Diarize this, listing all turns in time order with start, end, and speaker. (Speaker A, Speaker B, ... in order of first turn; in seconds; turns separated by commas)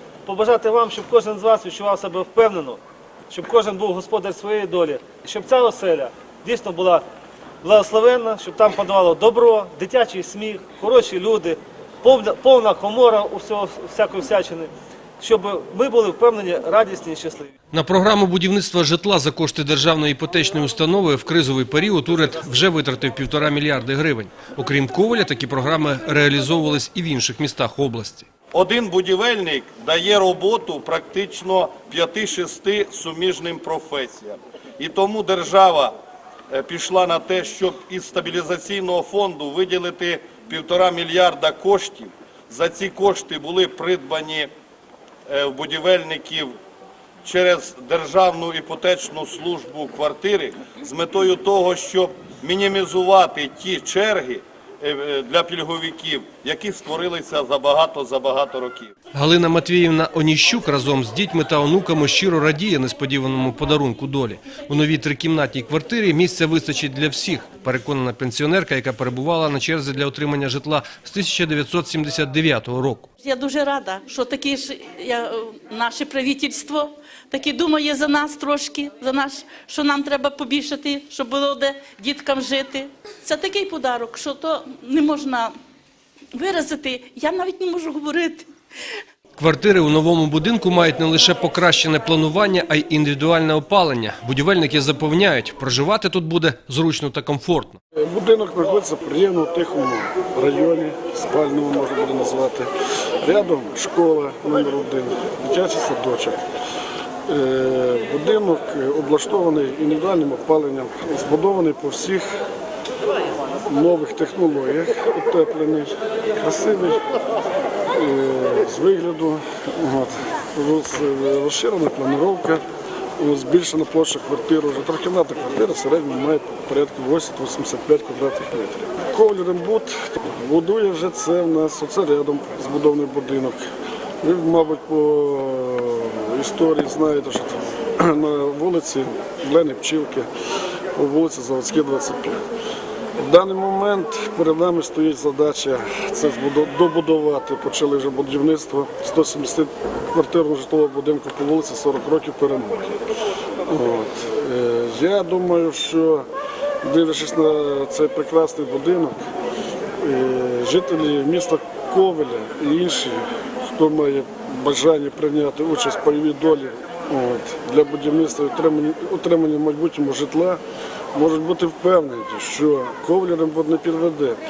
Speaker A: 0.2-7.0, Speaker A: 7.6-17.5, Speaker B: 17.7-28.3, Speaker C: 28.5-36.0, Speaker C: 36.5-44.5, Speaker C: 45.3-46.5, Speaker C: 47.2-58.9, Speaker B: 59.1-73.1, Speaker D: 73.2-85.5, Speaker D: 86.3-88.5, Speaker B: 89.4-97.8, Speaker E: 98.0-102.7, Speaker E: 103.2-106.4, Speaker E: 107.3-112.3, Speaker E: 113.7-117.0, Speaker E: 117.9-122.6, Speaker E: 123.2-133.6, Speaker E: 134.2-140.3, Speaker E: 140.9-142.4, Speaker E: 143.2-153.0, Speaker E: 153.7-156.3, Speaker E: 156.8-159.2, Speaker E: 160.0-170.6, Speaker E: 171.1-174.4